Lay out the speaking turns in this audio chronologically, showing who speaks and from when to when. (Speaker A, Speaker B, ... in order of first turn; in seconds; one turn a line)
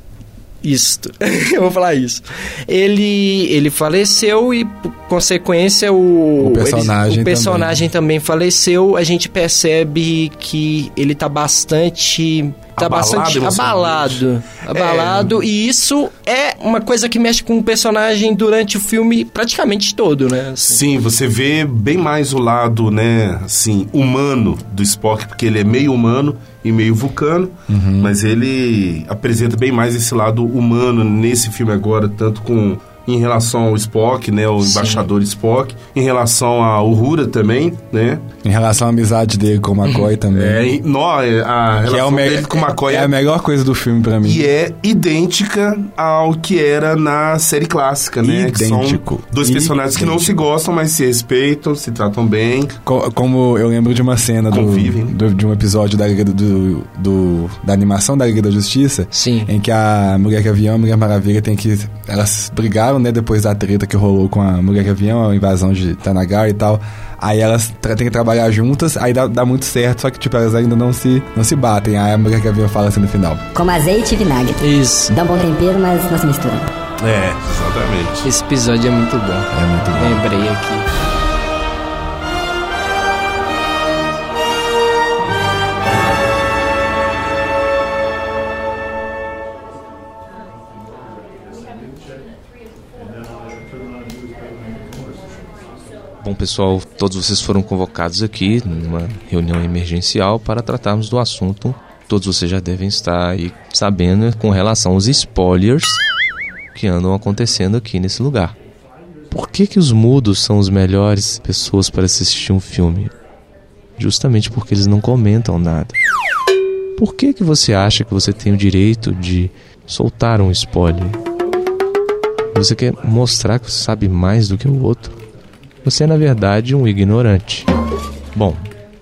Speaker A: 0.6-20.8
Speaker B: 6.4-7.8
Speaker C: 12.8-15.3
Speaker C: 20.7-38.2
Speaker B: 27.7-28.1
Speaker A: 34.6-35.1
Speaker B: 38.4-40.7
Speaker A: 39.9-40.1
Speaker C: 40.3-43.1
Speaker B: 41.8-44.5
Speaker C: 44.2-52.8
Speaker B: 48.2-50.4
Speaker B: 52.9-73.4
Speaker C: 54.5-55.1
Speaker A: 59.1-59.5
Speaker D: 73.5-76.7
Speaker A: 74.6-75.1
Speaker C: 77.0-78.3
Speaker A: 78.2-80.9
Speaker B: 79.5-80.2
Speaker E: 96.2-106.0
Speaker E: 106.7-108.5
Speaker E: 109.3-113.1
Speaker E: 114.0-116.0
Speaker E: 117.0-121.2
Speaker E: 122.5-125.2
Speaker E: 125.8-127.7
Speaker E: 128.3-128.7